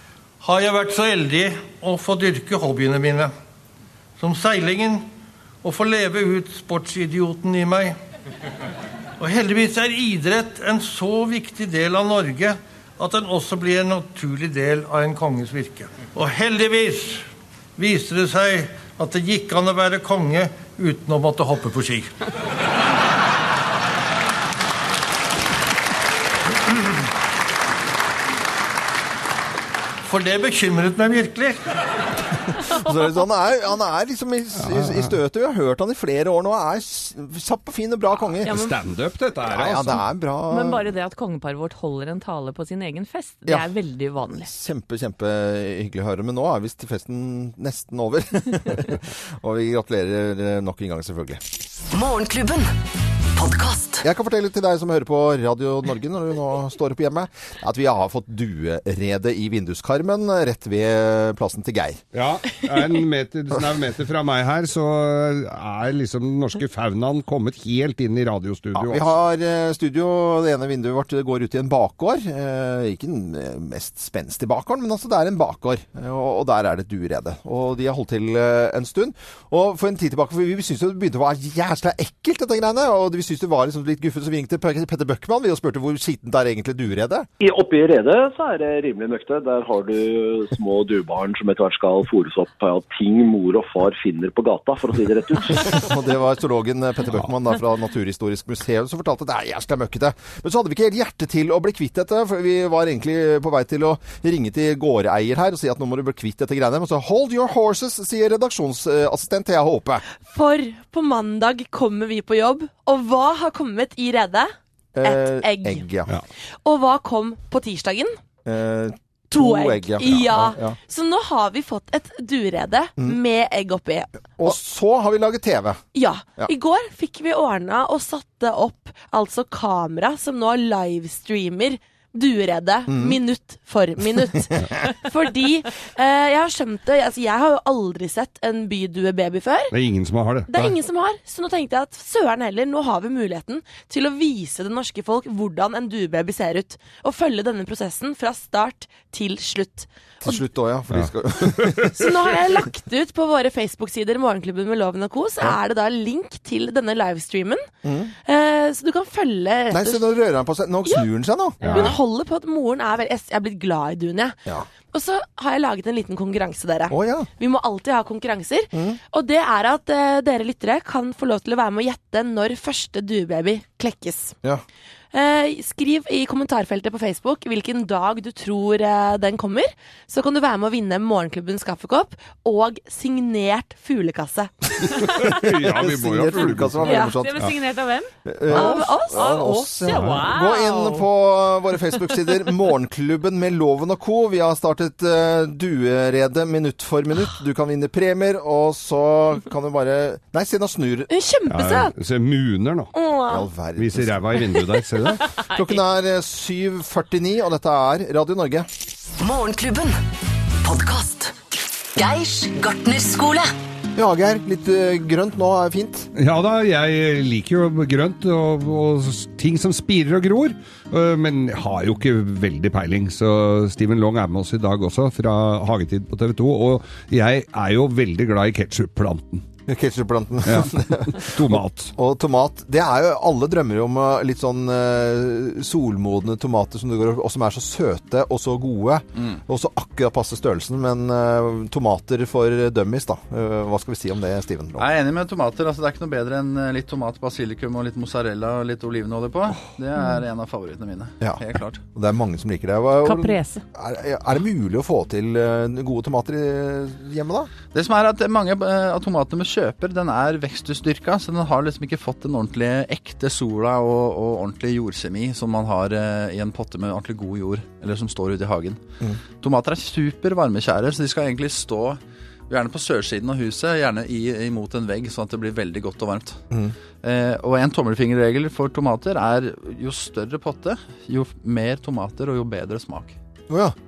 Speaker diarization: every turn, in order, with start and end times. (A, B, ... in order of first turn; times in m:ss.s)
0:00.4-0:03.3 A
0:04.2-0:05.1 A
0:05.6-0:08.0 A
0:09.2-0:22.1 A
0:30.0-0:31.8 A
0:32.6-0:38.6 B
0:34.6-0:35.1 C
0:38.4-0:38.7 D
0:38.4-0:40.0 C
0:39.5-0:40.9 B
0:40.5-0:44.5 D
0:44.3-0:51.4 B
0:51.9-0:52.8 E
0:53.3-0:54.1 E
0:54.0-1:02.0 B
1:02.1-1:09.1 C
1:08.8-1:27.3 B
1:27.4-1:35.8 F
1:35.6-1:50.0 B
1:50.2-1:55.8 G
1:55.0-1:56.1 B
1:56.6-1:58.2 G
1:58.4-2:00.8 B
1:59.3-2:04.5 G
2:04.4-2:05.8 B
2:06.0-2:19.7 G
2:12.9-2:13.2 B
2:19.7-2:20.5 C
2:20.5-2:30.4 G
2:30.2-2:32.3 B
2:30.9-2:32.2 C
2:32.0-2:37.7 G
2:37.8-2:38.1 B
2:38.2-2:40.1 G
2:39.7-2:42.0 B
2:41.6-2:42.0 C
2:41.7-2:44.4 G
2:44.9-2:54.4 G
2:46.9-2:47.3 B
2:48.7-2:49.0 B
2:55.1-3:05.4 G
3:04.8-3:06.9 C
3:04.8-3:07.5 B
3:06.9-3:07.1 G
3:06.9-3:11.1 D
3:08.2-3:21.1 B
3:08.5-3:09.7 G
3:09.9-3:10.2 C
3:21.1-3:21.9 G
3:21.5-3:22.9 C
3:22.9-3:23.4 G
3:23.3-3:24.4 B
3:23.8-3:25.4 C
3:25.0-3:28.7 B
3:29.2-3:30.0 E
3:30.6-3:31.4 E
3:32.0-3:33.5 E
3:34.0-3:36.1 B
3:36.2-3:49.5 C
3:49.7-4:04.9 B
3:50.4-3:51.9 C
4:04.8-4:11.8 H
4:11.9-4:17.5 B
4:13.0-4:13.6 D
4:17.7-4:28.8 H
4:29.4-4:36.4 H
4:37.0-4:43.2 H
4:43.5-4:43.8 B